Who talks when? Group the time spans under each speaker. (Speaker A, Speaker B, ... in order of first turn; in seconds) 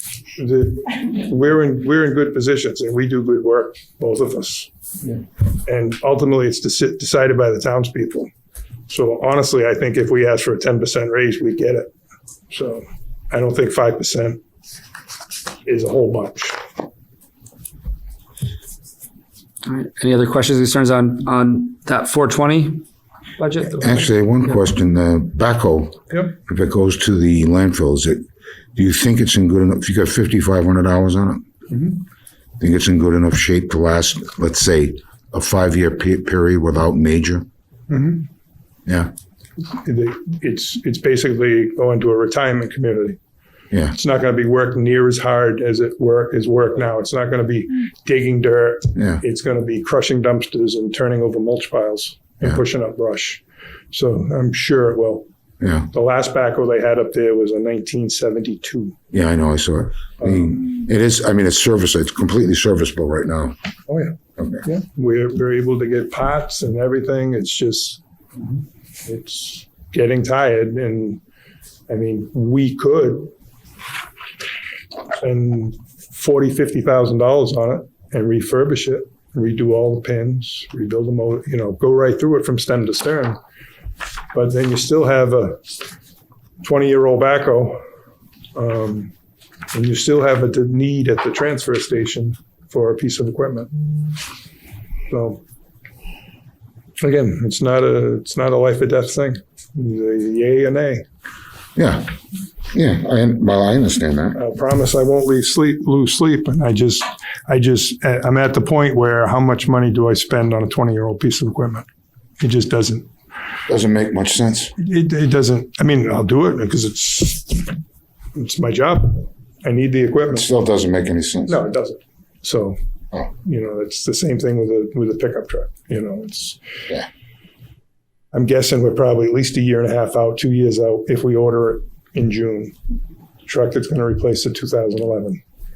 Speaker A: 0.3-8.3, 8.9-11.9, 12.5-14.4, 15.6-16.6, 31.7-32.0, 37.9-38.2, 39.7-43.2, 43.9-55.2, 55.9-59.0, 60.2-60.6, 63.9-68.0, 69.0-71.2, 71.9-73.3, 75.2-83.4, 84.3-85.6, 86.6-87.8, 88.5-89.1, 89.7-93.7, 95.1-95.4, 97.0-101.0, 104.3-111.9, 112.4-113.1, 114.8-117.8, 118.3-120.5, 121.5-126.6, 128.3-132.7, 133.4-135.4
Speaker B: 19.6-22.8, 23.4-24.0
Speaker C: 23.7-28.2, 28.8-31.4, 32.6-37.4, 38.9-39.1, 49.0-49.2, 55.6-55.9, 59.1-63.5, 64.4-64.6, 101.8-102.1, 102.7-104.4, 113.7-114.7, 120.3-121.6